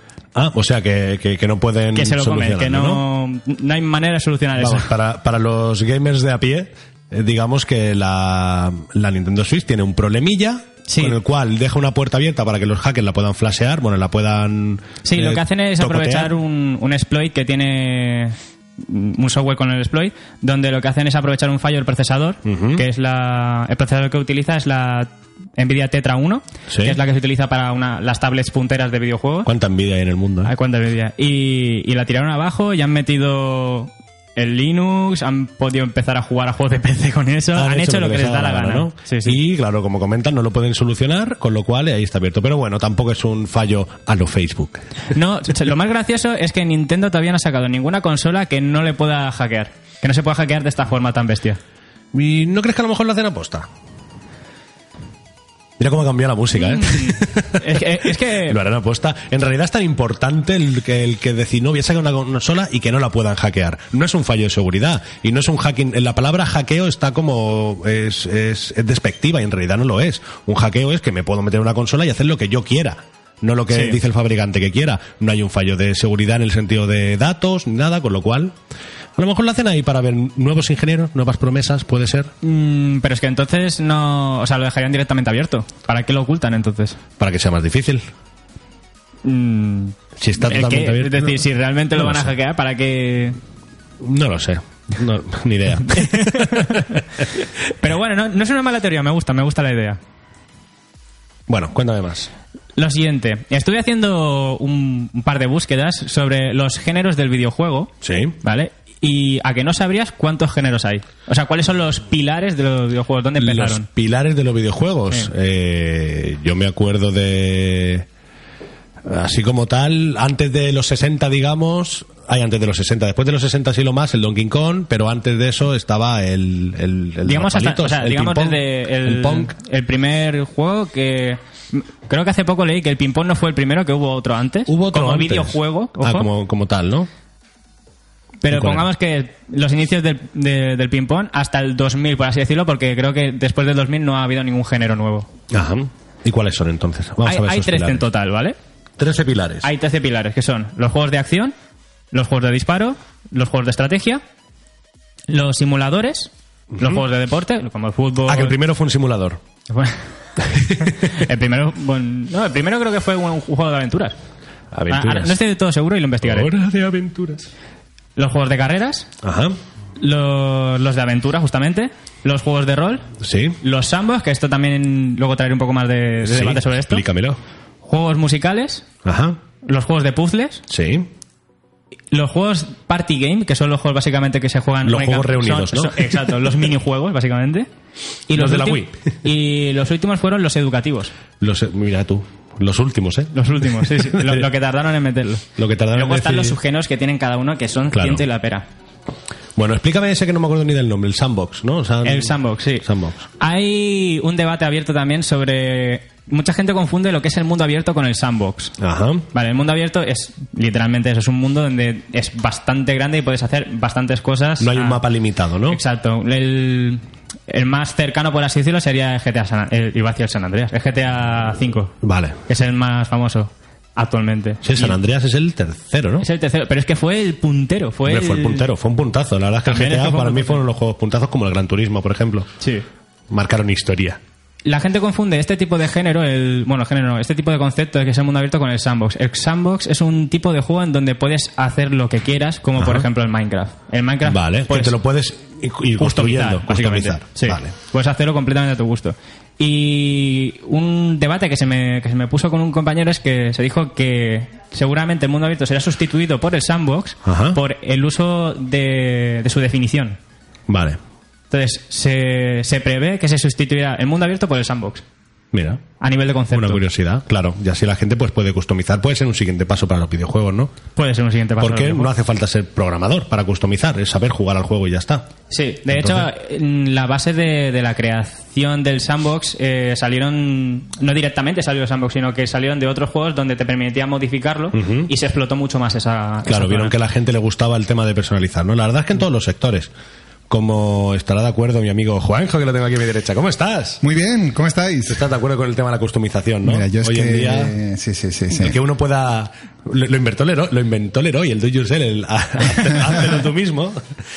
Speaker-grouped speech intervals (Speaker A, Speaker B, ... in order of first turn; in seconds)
Speaker A: 0.3-3.0, 4.6-16.3, 22.4-22.8, 26.7-27.0, 29.4-30.5, 37.5-44.9, 52.1-53.7, 55.8-78.5, 79.2-82.3, 87.2-88.0, 90.2-91.4, 92.0-92.3, 94.0-97.0, 101.5-102.3, 108.0-108.3, 113.4-118.0, 119.0-129.5, 134.7-137.1, 138.5-138.9, 145.5-148.0, 149.0-149.7, 156.7-157.0, 158.3-159.4, 160.5-161.2, 164.7-165.4, 166.2-167.5, 169.2-169.6, 173.2-173.6, 176.2-177.4, 179.0-179.4, 180.7-181.1, 184.8-186.1, 188.3-189.0, 191.4-194.5, 195.6-196.6, 197.9-198.2, 199.6-203.2, 208.8-209.2, 214.6-215.8, 222.0-222.4, 224.6-226.2, 228.1-232.5, 233.3-234.2, 242.8-243.1, 244.3-247.7, 257.2-257.6, 260.7-261.0, 265.5-265.8, 266.5-270.7, 271.6-275.3, 275.9-276.3, 284.7-285.1, 286.4-289.9, 290.5-294.0, 295.1-297.7, 298.6-304.0
Speaker B: 1.9-4.9, 10.9-11.2, 15.0-29.5, 30.4-39.4, 45.1-51.6, 56.5-58.6, 73.7-74.0, 82.4-87.0, 89.2-93.4, 95.9-97.0, 97.8-100.0, 102.8-113.9, 127.2-136.3, 138.4-145.3, 147.2-148.6, 149.6-151.5, 152.1-154.2, 155.3-158.6, 159.7-160.0, 160.8-164.2, 164.9-166.5, 168.2-169.1, 170.0-173.1, 173.6-177.0, 177.8-178.8, 179.6-180.6, 182.1-187.7, 188.3-191.1, 193.3-198.7, 202.0-202.8, 203.4-208.7, 209.3-215.0, 215.7-221.9, 222.5-224.9, 226.2-228.7, 229.7-230.6, 232.6-232.8, 234.6-244.9, 246.0-260.2, 261.5-265.0, 266.0-266.8, 270.9-272.1, 275.5-286.9
Speaker C: 294.0-295.3, 296.6-298.8